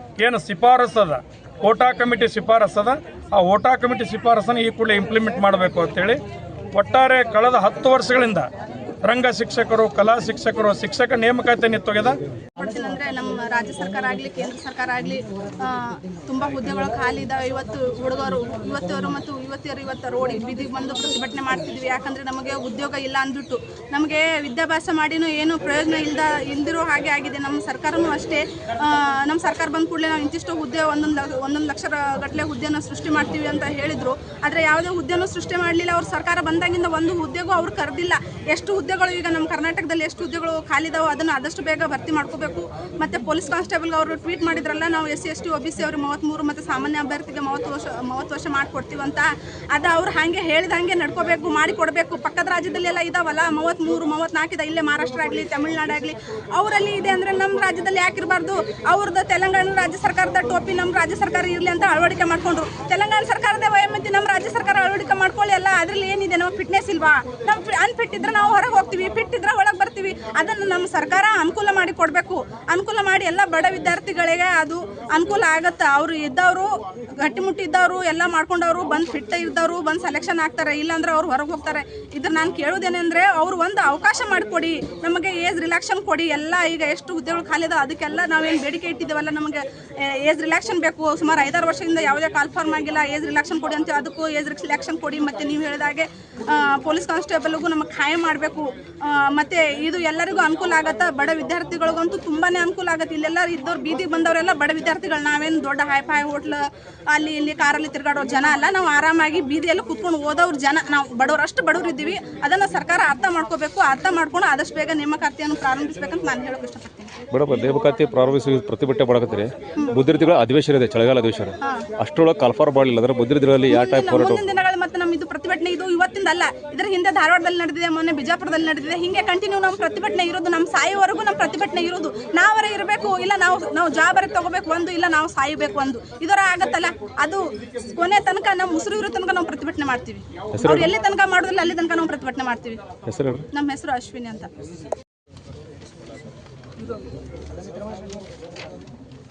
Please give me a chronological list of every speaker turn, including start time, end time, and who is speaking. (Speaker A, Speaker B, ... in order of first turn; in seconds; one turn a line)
Speaker A: 0.2-6.2
Speaker A: 6.7-8.5
Speaker A: 9.0-12.2
Speaker B: 12.6-76.7
Speaker B: 77.2-106.6
Speaker B: 107.1-117.1
Speaker C: 117.3-124.4
Speaker B: 123.7-142.8
Speaker C: 140.5-140.9
Speaker C: 143.1-143.4
Speaker B: 143.5-144.5